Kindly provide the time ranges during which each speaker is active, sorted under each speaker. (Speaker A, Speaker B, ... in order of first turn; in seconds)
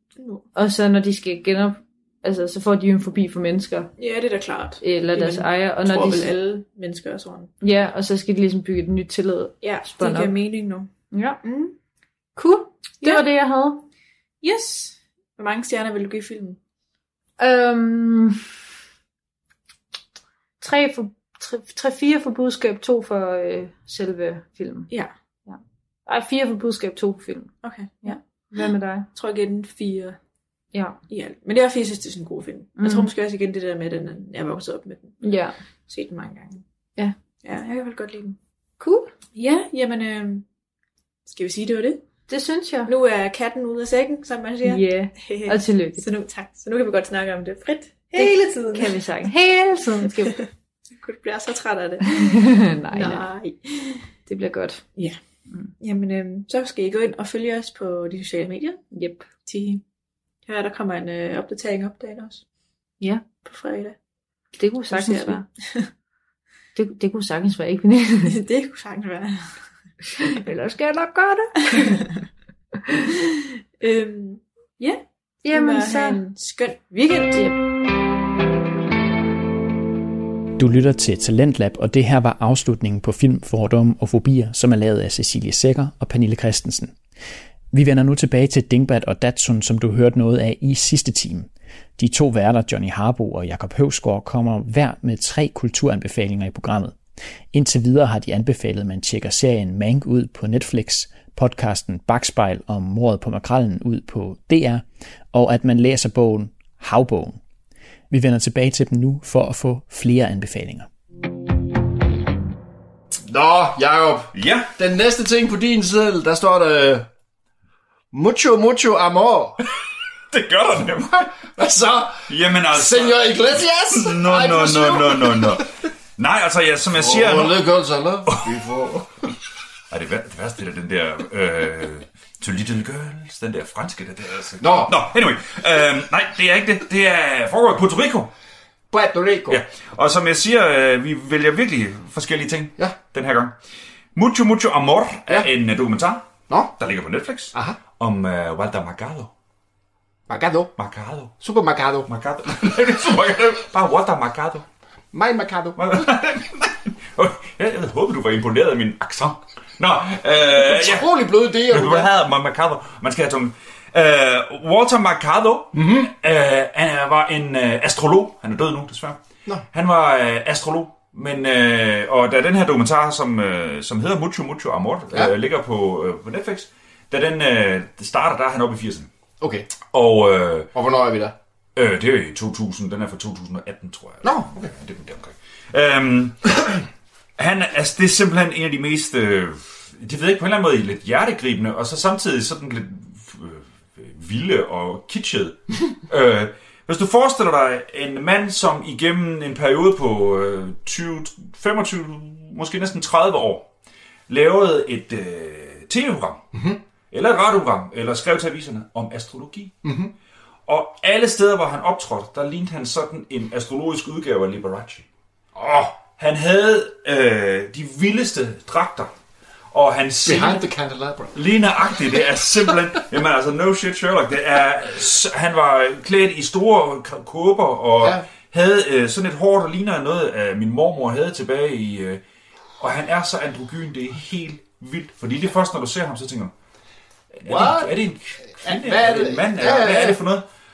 Speaker A: 0.2-0.4, 4.0-7.5, 9.6-10.9, 11.4-11.7, 14.4-16.6, 27.6-28.2, 29.1-30.2, 31.1-35.2, 35.9-36.6, 37.4-38.4, 39.3-40.4, 41.2-42.0, 42.9-49.0, 50.0-54.1, 55.8-58.8, 59.4-59.8, 60.5-62.4, 63.4-64.0, 64.9-65.9, 68.2-69.6, 71.7-72.1, 73.1-77.5
Speaker B: 0.5-3.9, 4.8-6.3, 7.6-10.3, 11.1-11.4, 12.3-13.8, 17.4-18.4, 20.6-24.9, 25.5-27.5, 28.0-29.1, 30.7-31.0, 32.8-33.1, 35.2-35.5, 38.8-39.1, 42.3-42.9, 44.6-46.0, 48.1-50.4, 52.0-53.2, 54.3-54.8, 58.9-59.3, 64.5-65.5, 66.7-68.4, 70.1-72.0, 72.8-73.1, 75.4-76.2
Speaker C: 80.6-87.0, 87.7-97.0, 97.5-107.4, 108.1-110.9
Speaker D: 113.2-117.1, 118.1-119.6, 121.4-125.7, 126.9-129.1, 134.6-135.0, 138.9-139.6, 146.5-146.7, 147.5-147.8, 150.3-150.7, 151.4-152.1, 155.1-156.1, 160.5-162.1, 165.7-166.1, 179.4-179.7, 180.7-181.3, 184.2-184.7, 206.5-206.8, 209.8-210.1, 215.5-216.0, 220.2-221.3, 228.0-228.2, 237.4-237.9, 238.6-240.2
Speaker E: 114.3-114.7, 120.3-121.3, 122.3-127.6, 128.2-128.5, 129.9-138.3, 139.5-143.6, 144.1-149.3, 150.8-151.4, 152.1-154.7, 155.8-161.1, 161.6-169.2, 169.7-179.1, 179.9-180.7, 181.7-186.8, 187.4-203.7, 204.3-206.4, 207.1-209.7, 210.7-215.1, 216.2-219.1, 219.7-220.6, 221.3-232.2, 232.8-236.5, 237.4-240.4